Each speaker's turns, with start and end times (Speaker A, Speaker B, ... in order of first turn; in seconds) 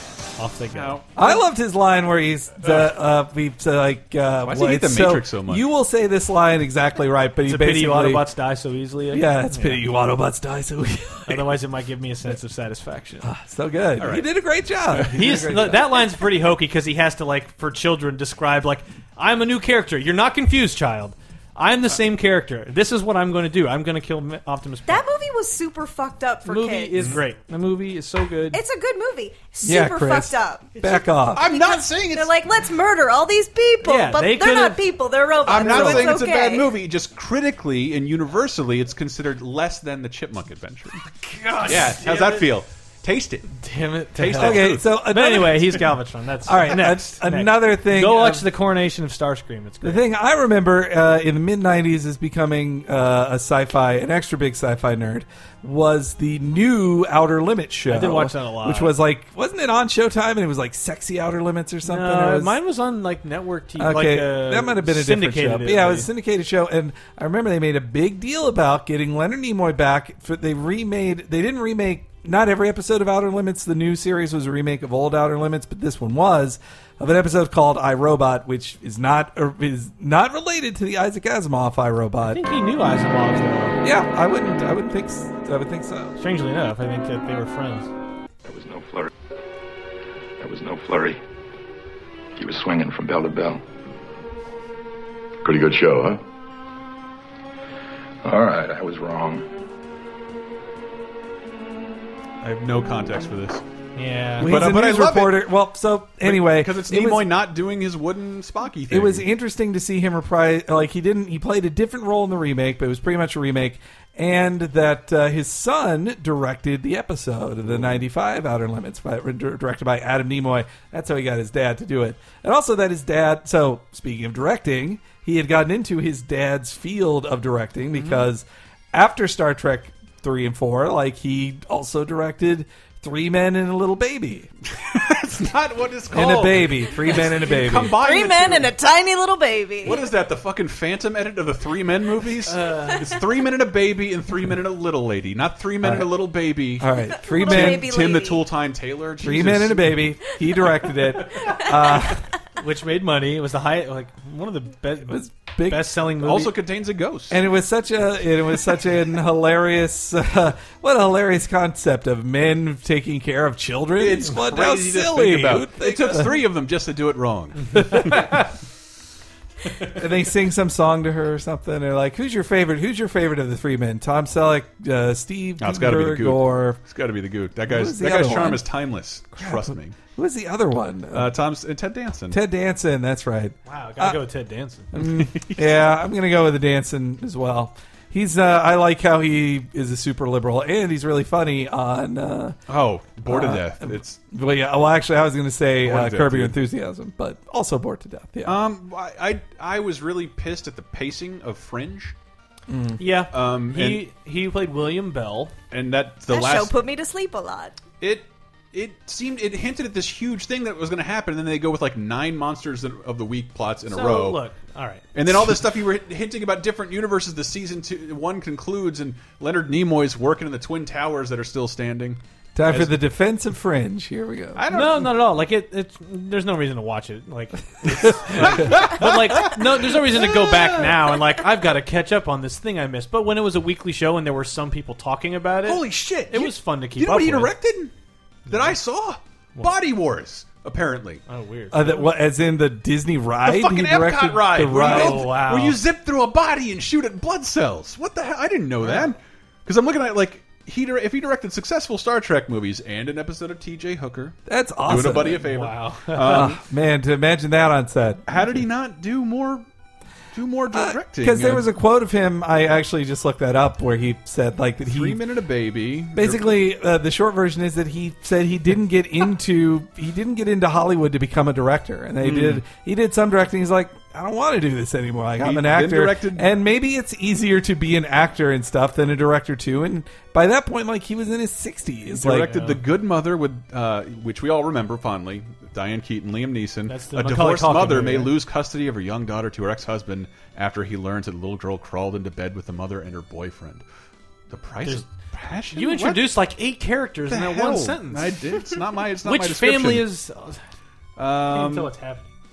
Speaker A: 0.4-1.0, 7.4-9.8, 11.2-13.3, 15.1-25.0, 26.4-28.6, 33.8-34.8, 41.2-42.5, 43.5-50.0, 57.9-59.0, 61.8-66.1, 82.3-83.8, 86.2-87.9, 104.0-104.5, 142.5-143.1, 152.6-156.5, 183.7-184.9, 203.0-205.5, 213.8-215.1, 224.7-237.5, 238.5-238.8, 241.3-242.1, 244.7-245.8, 255.4-256.4, 282.4-282.8, 286.9-288.3, 295.7-298.4, 299.2-300.6, 301.5-302.2
Speaker B: 0.7-1.3, 4.5-5.6, 14.0-14.3, 31.3-32.3, 35.4-41.0, 41.6-43.5, 44.1-45.0, 102.4-103.6, 104.4-105.5, 106.2-109.3, 127.9-128.2, 134.7-138.7, 139.8-150.1, 156.2-157.4, 164.0-168.5, 169.7-169.9, 175.6-179.9, 181.1-182.4, 185.0-185.9, 192.7-194.2, 195.8-196.5, 198.4-202.1, 203.3-204.1, 205.7-206.8, 208.0-214.4, 215.1-223.0, 224.6-225.2, 228.0-231.1, 235.6-237.9, 238.5-241.2, 243.4-256.6, 258.3-259.6, 260.3-261.6, 264.8-266.5, 272.2-272.6, 275.4-276.5, 282.1-293.8, 294.5-296.3, 297.3-300.1, 301.2-301.9
Speaker C: 1.1-8.2, 9.1-11.4, 13.2-16.0, 29.6-31.4, 35.7-36.1, 44.3-45.8, 46.4-48.5, 49.8-62.5, 63.8-82.4, 83.8-86.2, 104.4-107.3, 108.9-134.5, 136.1-138.0, 145.8-146.1, 146.8-148.1, 149.2-152.2, 155.1-155.9, 157.3-166.4, 169.9-176.8, 177.7-178.6, 179.4-181.3, 182.3-184.2, 184.9-192.6, 193.2-198.6, 202.7-203.0, 222.5-224.6, 241.7-245.3, 254.5-255.5, 256.2-258.6, 260.7-265.2, 266.1-282.5
Speaker D: 24.9-27.0, 28.5-30.9, 31.4-36.7, 137.9-140.1, 147.2-148.5, 206.3-207.8
Speaker E: 88.5-89.1, 90.4-91.1, 92.4-93.6, 95.4-96.2, 98.2-99.4